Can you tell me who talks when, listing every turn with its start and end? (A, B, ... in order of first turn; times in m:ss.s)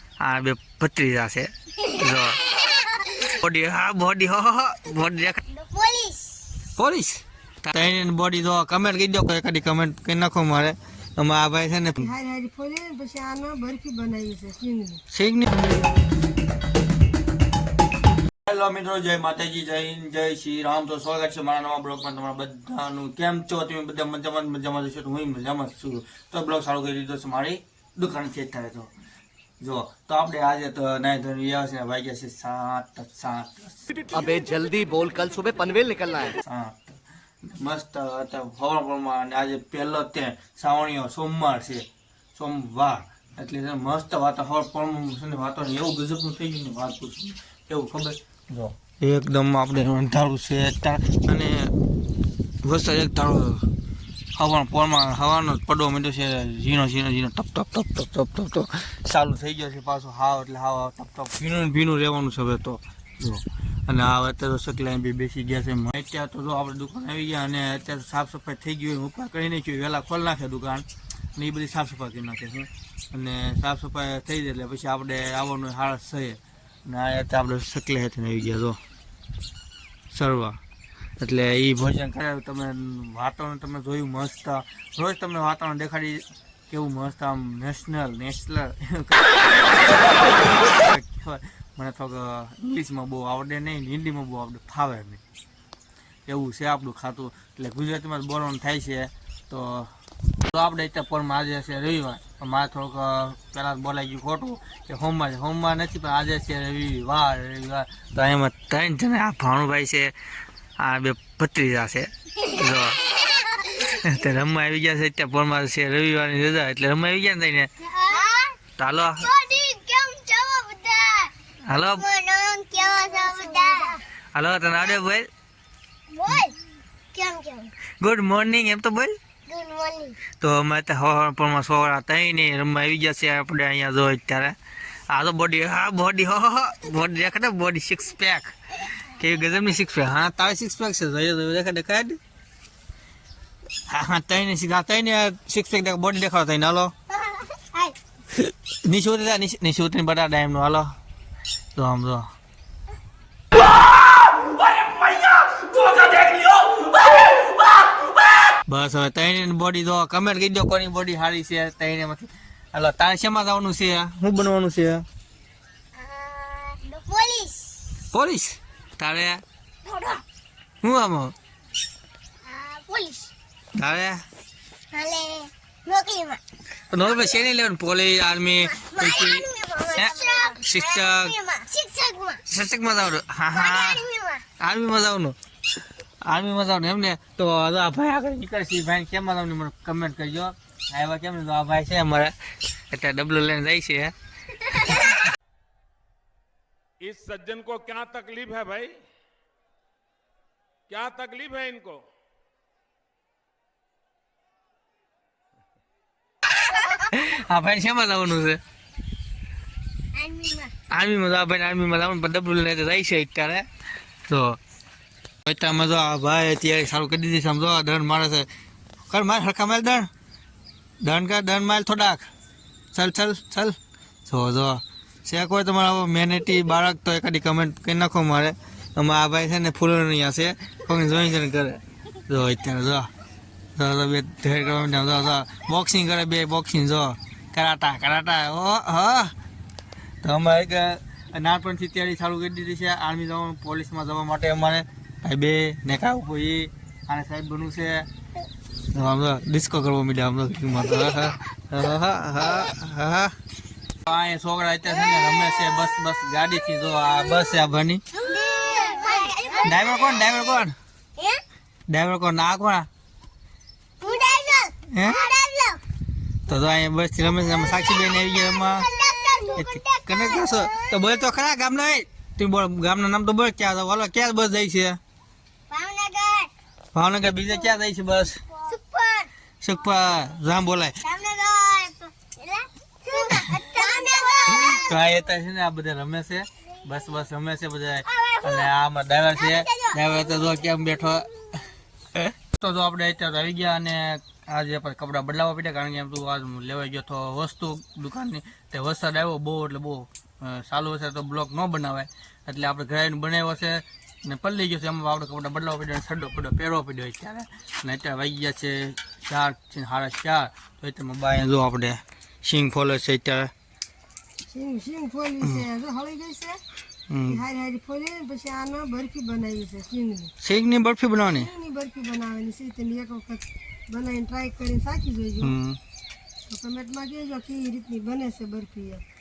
0:00.2-0:02.5 A
0:02.5-0:03.1 B
0:03.2-0:05.4 A
0:05.5-0:06.5 B
0:06.8-0:12.1 A
0:12.0-0:15.0 C
0:15.1-0:15.7 A
0:18.5-0:28.9 A
0:29.6-0:33.9 A
0:34.0-0:36.3 D
0:36.4-0:51.8 A
0:52.6-0:53.7 A
0:54.4-1:18.8 A
1:20.1-1:20.6 A
1:21.2-1:35.2 A
1:36.3-1:39.9 A
1:40.5-1:50.1 A
1:50.8-1:53.2 A
1:53.1-1:53.8 B
1:53.7-1:57.7 A
1:57.9-1:58.6 B
1:58.8-1:59.3 A
1:59.2-2:01.3 B
2:01.7-2:02.0 A
2:02.0-2:04.0 B
2:04.3-2:05.3 A
2:06.1-2:06.6 B
2:07.1-2:07.7 B
2:08.0-2:09.1 A
2:09.5-2:10.2 B
2:10.4-2:14.6 A
2:15.1-2:22.2 A
2:23.9-2:26.9 A
2:27.1-2:28.0 B
2:28.3-2:31.0 A
2:31.8-2:32.3 A
2:34.8-2:37.6 A
2:38.5-2:45.1 A
2:46.0-2:47.9 B
2:48.1-2:49.4 A
2:49.8-2:50.2 B
2:50.8-2:51.4 A
2:52.4-2:53.3 B
2:53.8-2:54.2 A
2:54.9-2:56.4 B
2:56.9-3:01.4 A
2:58.6-3:02.4 B
3:02.5-3:04.0 A
3:03.5-3:04.4 B
3:04.6-3:05.4 A
3:06.2-3:12.4 A
3:12.9-3:15.0 A
3:17.0-3:19.0 E
3:20.9-3:22.0 E
3:26.8-3:28.6 A
3:30.1-3:30.7 B
3:30.9-3:33.7 A
3:34.3-3:34.6 A
3:35.4-3:38.5 A
3:39.1-3:40.1 A
3:41.0-3:42.3 A
3:42.9-3:53.1 A
3:53.8-3:59.3 A
4:00.2-4:08.1 A
4:08.9-4:13.4 A
4:14.1-4:18.0 A
4:18.1-4:20.3 B
4:19.6-4:20.8 A
4:21.2-4:21.4 B
4:21.9-4:22.9 A
4:24.0-4:25.8 B
4:24.9-4:25.2 A
4:26.5-4:28.9 A
4:27.4-4:31.1 B
4:29.6-4:35.0 A
4:35.7-4:36.5 B
4:36.9-4:38.4 A
4:38.6-4:39.3 B
4:39.6-4:41.0 A
4:41.0-4:44.9 B
4:44.5-5:13.5 A
4:48.1-4:48.7 B
4:49.4-4:50.0 B
5:14.5-5:16.6 C
5:17.1-5:17.4 A
5:17.3-5:20.3 C
5:20.4-5:21.5 A
5:21.3-5:25.6 C
5:25.4-5:25.8 A
5:26.5-5:29.0 C